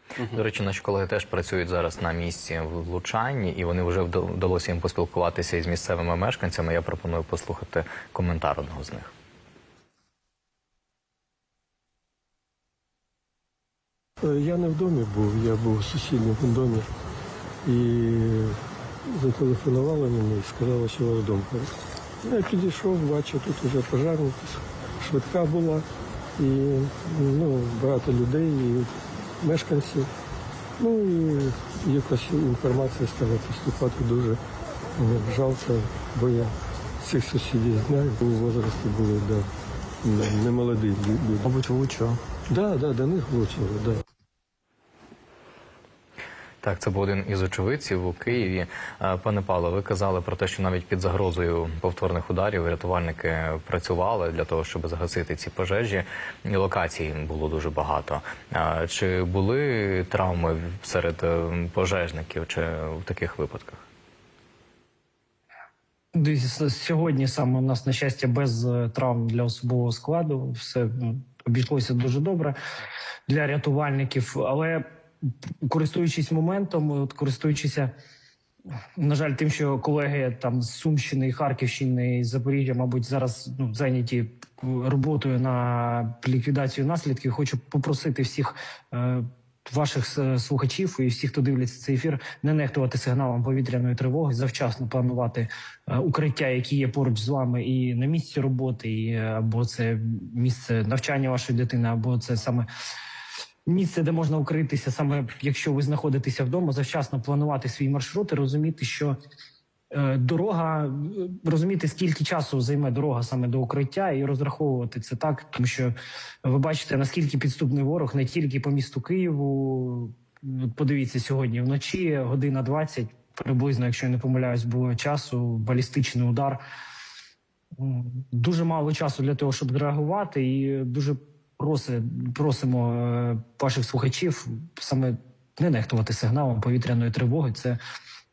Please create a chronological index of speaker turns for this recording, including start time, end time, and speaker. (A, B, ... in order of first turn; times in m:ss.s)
0:00.3-0:09.1 A
0:14.2-0:16.9 B
0:17.6-0:25.9 B
0:26.4-0:28.9 B
0:29.4-0:30.1 B
0:30.8-0:34.4 B
0:35.0-0:39.5 B
0:40.0-0:41.5 B
0:41.4-0:42.2 C
0:42.5-0:44.0 B
0:46.6-1:03.8 A
1:06.1-1:12.6 C
1:13.3-1:14.9 C
1:15.6-1:17.9 C
1:19.0-1:42.7 C
1:43.7-1:49.2 C
1:49.9-1:55.9 C
1:56.4-2:06.6 C
2:07.8-2:17.8 C